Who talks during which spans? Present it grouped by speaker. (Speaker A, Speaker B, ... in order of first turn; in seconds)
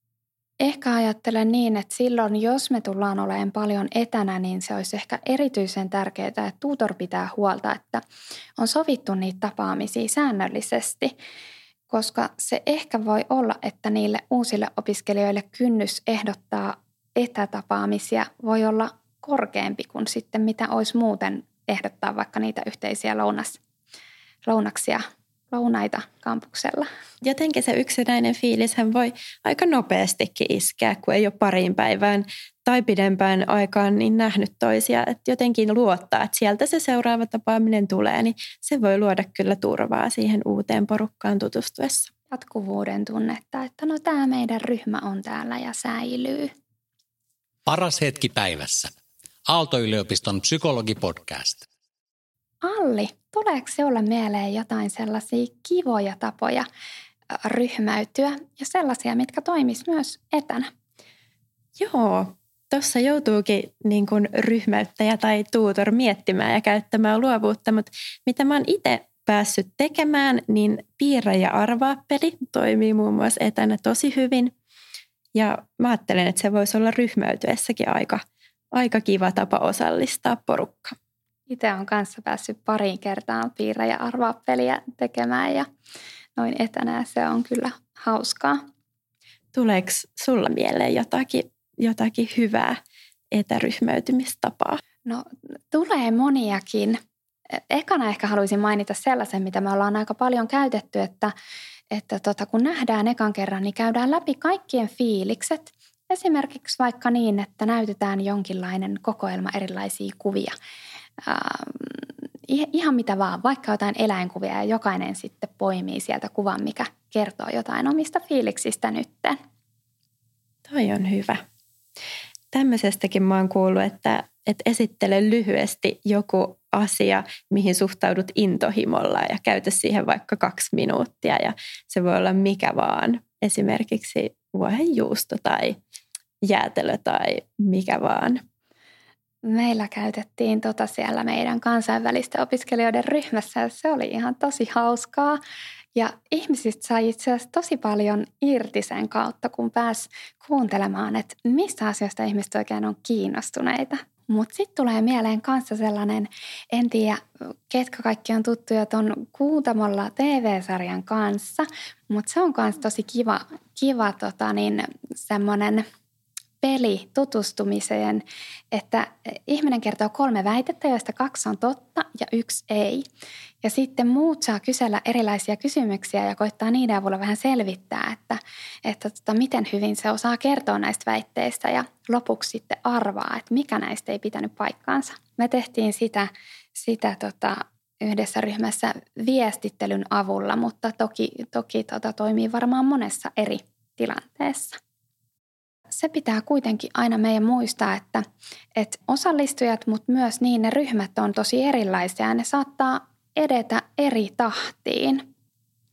Speaker A: 0.6-8.0, 8.6-11.2, 11.9-23.6, 24.4-26.9, 42.3-46.5, 52.6-56.6, 57.4-60.7, 81.5-85.7, 86.4-88.6, 95.1-97.0, 97.5-101.3, 101.9-110.5, 111.2-119.4, 139.4-145.4, 145.9-165.9, 166.6-173.1, 173.6-194.8, 195.9-205.3
Speaker B: 27.2-42.1, 61.8-74.5, 75.3-81.0, 89.5-92.8, 93.3-94.8, 120.7-121.4, 122.5-135.8, 136.4-138.4
Speaker C: 47.6-48.9, 49.5-51.6